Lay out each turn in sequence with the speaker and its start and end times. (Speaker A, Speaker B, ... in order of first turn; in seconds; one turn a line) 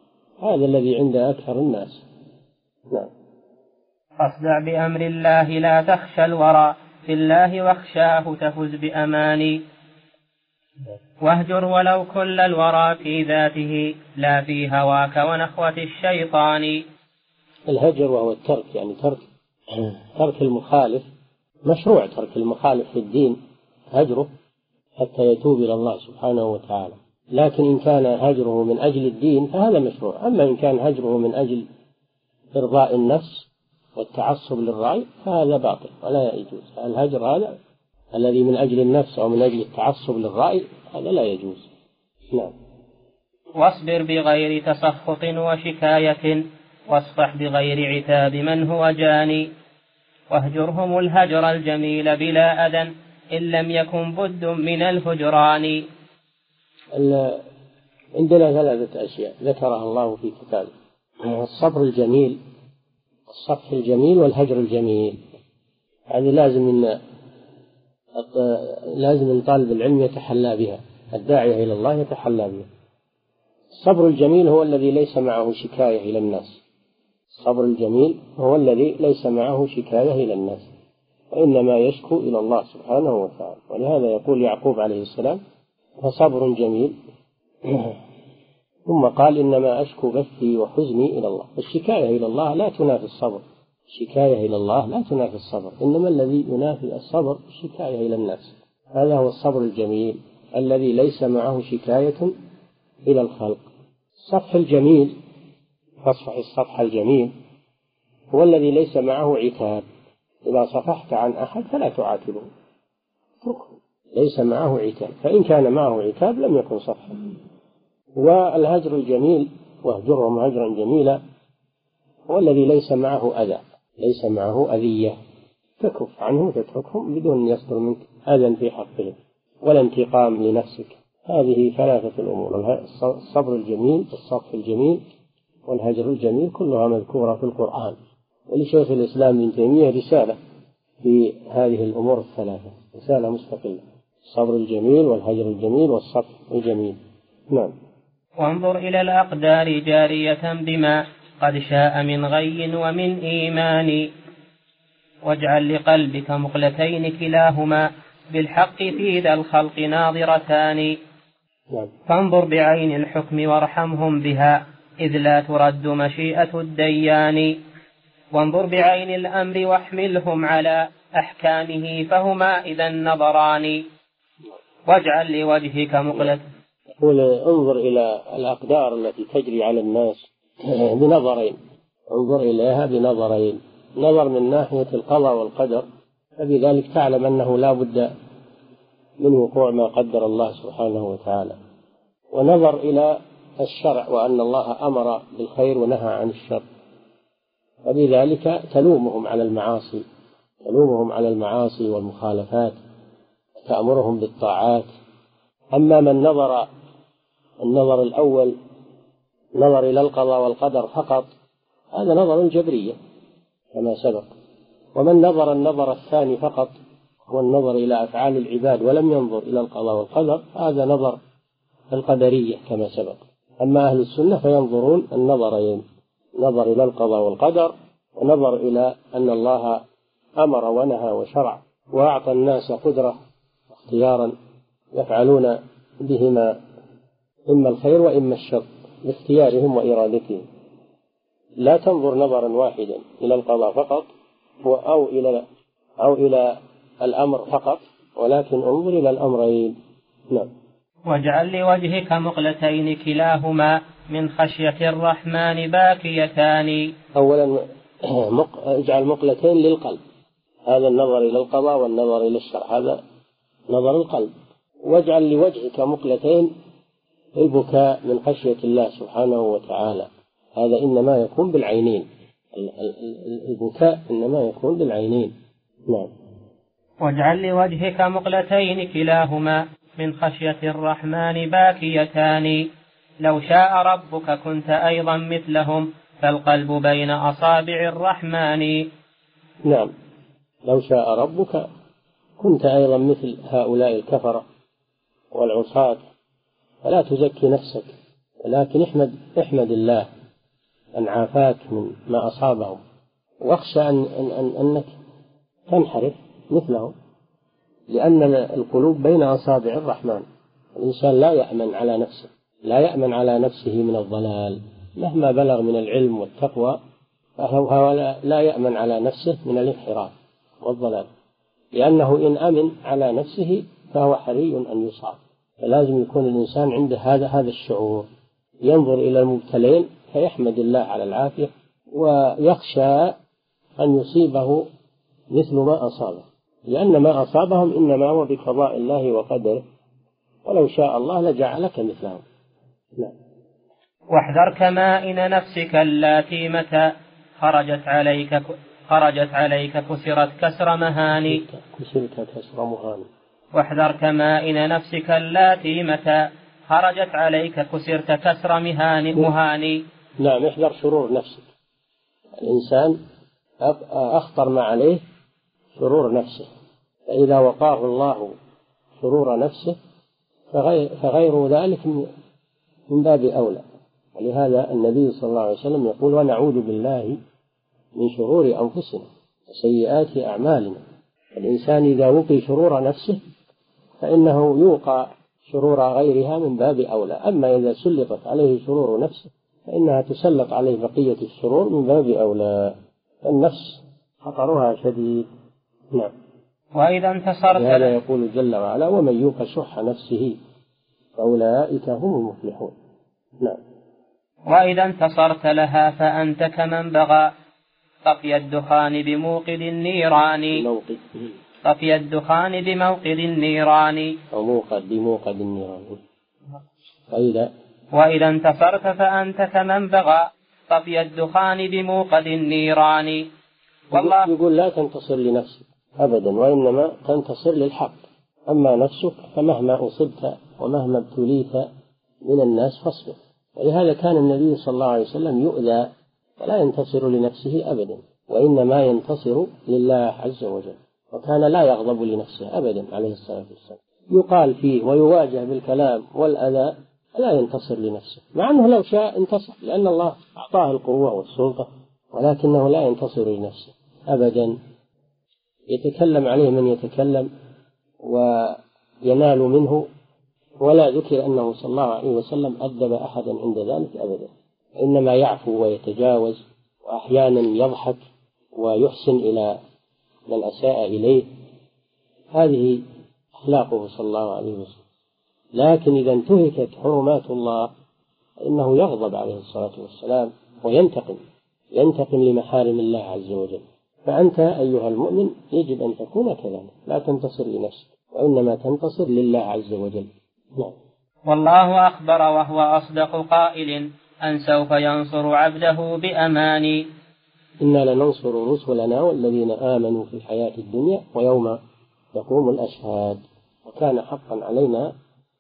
Speaker A: 0.4-2.0
Speaker B: 4.2-9.6
Speaker B: 11.2-16.8
Speaker A: 17.7-21.1
Speaker A: 21.7-23.4
Speaker A: 23.9-24.3
Speaker A: 25.0-31.7
Speaker A: 32.5-37.6
Speaker A: 38.1-41.7
Speaker B: 43.6-49.5
Speaker B: 50.3-55.8
Speaker A: 56.9-57.4
Speaker A: 58.2-62.4
Speaker A: 63.3-65.2
Speaker A: 66.1-67.0
Speaker A: 68.2-72.7
Speaker A: 73.8-76.6
Speaker A: 77.4-80.7
Speaker A: 81.3-85.4
Speaker A: 86.0-87.0
Speaker A: 87.6-88.0
Speaker A: 88.9-102.3
Speaker A: 103.1-103.7
Speaker A: 104.2-105.2
Speaker A: 106.0-107.3
Speaker A: 108.3-109.8
Speaker A: 110.5-112.5
Speaker A: 113.4-117.3
Speaker A: 118.2-121.2
Speaker A: 122.3-125.2
Speaker A: 125.8-135.0
Speaker A: 135.7-138.0
Speaker A: 138.5-140.4
Speaker A: 141.0-147.0
Speaker B: 148.4-154.1
Speaker B: 155.3-161.0
Speaker B: 162.1-167.6
Speaker B: 168.3-173.8
Speaker B: 174.9-176.4
Speaker A: 177.0-181.6
Speaker A: 182.1-185.9
Speaker A: 186.4-188.1
Speaker A: 189.2-191.6
Speaker A: 192.3-196.7
Speaker A: 197.8-200.0
Speaker A: 200.7-202.8
Speaker A: 203.6-204.9
Speaker A: 205.8-206.7
Speaker A: 207.6-208.6
Speaker A: 209.6-211.3
Speaker A: 211.9-213.0
Speaker A: 213.7-214.3
Speaker A: 214.9-216.8
Speaker A: 217.3-221.2
Speaker A: 221.9-225.8
Speaker A: 226.4-229.8
Speaker A: 230.4-233.2
Speaker A: 233.7-234.3
Speaker A: 234.9-236.6
Speaker A: 237.5-240.4
Speaker A: 241.6-244.1
Speaker A: 244.6-245.5
Speaker A: 246.0-249.8
Speaker B: 251.1-256.9
Speaker A: 257.1-260.0
Speaker A: 260.7-263.0
Speaker A: 263.7-264.3
Speaker A: 264.8-266.5
Speaker A: 267.4-275.3
Speaker B: 277.0-282.7
Speaker B: 283.2-288.9
Speaker A: 289.6-289.9
Speaker A: 290.7-291.7
Speaker A: 292.4-294.4
Speaker A: 295.3-296.0
Speaker A: 296.8-297.9
Speaker A: 298.4-300.1
Speaker A: 301.0-302.8
Speaker A: 303.4-304.9
Speaker A: 305.7-306.9
Speaker A: 307.9-310.2
Speaker A: 310.8-316.8
Speaker A: 317.4-321.1
Speaker A: 321.8-328.1
Speaker A: 328.6-333.2
Speaker A: 333.8-334.6
Speaker A: 335.3-339.6
Speaker A: 340.4-342.2
Speaker B: 344.1-346.9
Speaker B: 347.4-351.4
Speaker A: 351.3-353.1
Speaker B: 353.6-359.8
Speaker A: 360.2-361.5
Speaker A: 362.4-363.0
Speaker A: 363.6-365.0
Speaker A: 365.8-366.5
Speaker A: 367.1-368.3
Speaker A: 369.0-369.8
Speaker A: 370.5-372.1
Speaker A: 372.9-373.6
Speaker A: 374.1-377.2
Speaker A: 378.0-380.8
Speaker A: 381.4-383.2
Speaker A: 384.0-395.3
Speaker B: 396.8-397.9
Speaker A: 397.5-400.4
Speaker A: 401.2-402.8
Speaker B: 404.5-407.3
Speaker B: 408.1-410.6
Speaker A: 410.5-411.1
Speaker B: 411.6-414.2
Speaker A: 414.3-416.0
Speaker A: 417.1-417.5
Speaker B: 417.9-423.3
Speaker A: 423.9-428.0
Speaker B: 423.9-424.3
Speaker A: 428.5-431.7
Speaker A: 432.2-454.6
Speaker A: 455.7-457.3
Speaker A: 458.0-459.9
Speaker A: 460.6-468.0
Speaker A: 468.6-469.6
Speaker A: 470.3-471.3
Speaker A: 472.3-472.8
Speaker A: 473.4-474.8
Speaker A: 475.6-477.7
Speaker A: 478.4-481.2
Speaker A: 481.8-490.8
Speaker B: 491.3-496.8
Speaker A: 497.6-501.6
Speaker A: 502.1-504.9